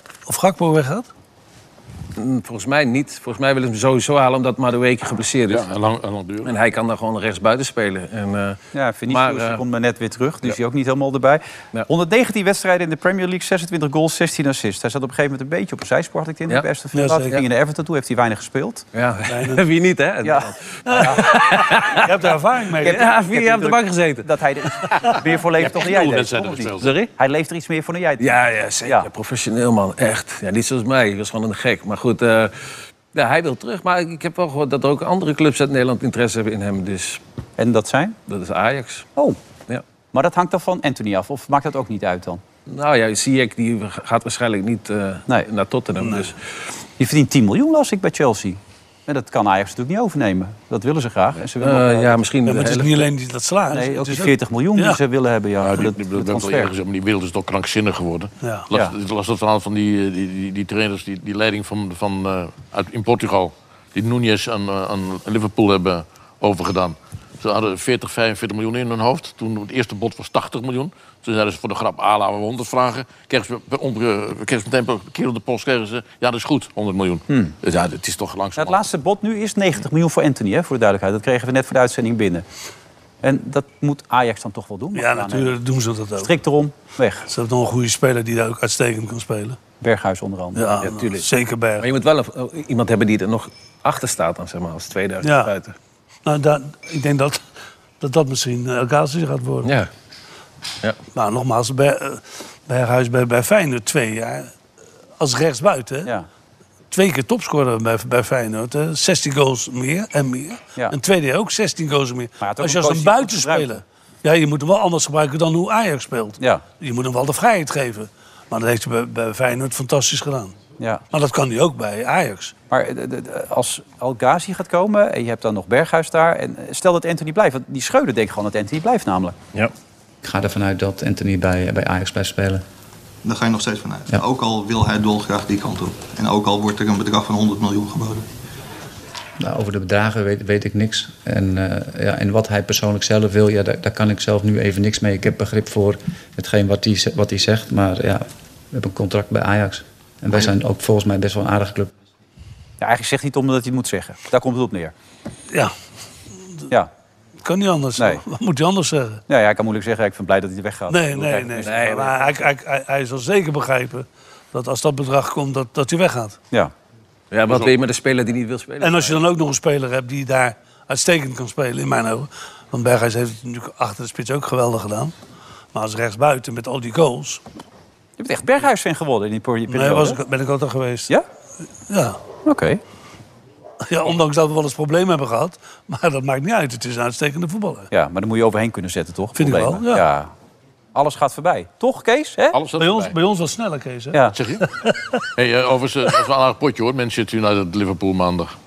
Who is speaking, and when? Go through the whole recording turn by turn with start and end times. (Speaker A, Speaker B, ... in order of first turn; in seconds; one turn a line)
Speaker A: 0.3-1.1
Speaker B: 2.2-5.7
Speaker C: 5.5-6.5
Speaker B: 6.5-9.6
Speaker D: 8.7-18.9
Speaker A: 16.9-17.4
Speaker B: 18.9-22.1
Speaker A: 19.3-19.6
Speaker D: 20.2-21.2
Speaker A: 20.9-23.0
Speaker D: 22.8-29.1
Speaker B: 22.8-24.3
Speaker C: 25.6-26.9
Speaker B: 26.8-27.1
Speaker B: 28.2-37.2
Speaker D: 37.6-38.2
Speaker B: 38.3-39.1
Speaker D: 40.1-42.4
Speaker B: 42.7-46.4
Speaker A: 46.0-46.3
Speaker D: 47.0-52.2
Speaker B: 51.6-53.1
Speaker A: 52.5-55.0
Speaker D: 53.7-56.7
Speaker C: 55.6-78.8
Speaker D: 78.6-82.5
Speaker D: 83.2-85.6
Speaker A: 85.0-86.3
Speaker D: 86.2-87.3
Speaker A: 87.3-89.6
Speaker D: 89.8-90.9
Speaker A: 90.5-91.9
Speaker B: 90.8-91.2
Speaker B: 91.8-95.8
Speaker A: 95.2-95.5
Speaker A: 96.2-97.5
Speaker A: 98.0-99.7
Speaker B: 99.6-99.9
Speaker A: 101.1-104.5
Speaker A: 105.2-106.1
Speaker A: 106.9-120.6
Speaker D: 112.4-113.8
Speaker A: 121.1-122.5
Speaker D: 122.7-129.4
Speaker E: 130.2-132.6
Speaker F: 133.2-138.3
Speaker E: 139.4-151.9
Speaker D: 152.8-154.9
Speaker A: 157.4-159.2
Speaker D: 158.0-158.2
Speaker D: 159.3-161.6
Speaker A: 160.9-166.4
Speaker B: 161.6-162.2
Speaker B: 167.3-169.2
Speaker A: 168.8-175.1
Speaker A: 175.7-177.4
Speaker D: 178.2-180.2
Speaker A: 179.7-181.1
Speaker A: 181.9-182.2
Speaker D: 182.4-182.8
Speaker A: 183.8-187.9
Speaker D: 187.9-190.3
Speaker A: 189.3-190.1
Speaker D: 190.9-192.6
Speaker C: 192.5-193.1
Speaker A: 192.8-195.2
Speaker C: 194.3-194.6
Speaker C: 195.4-198.5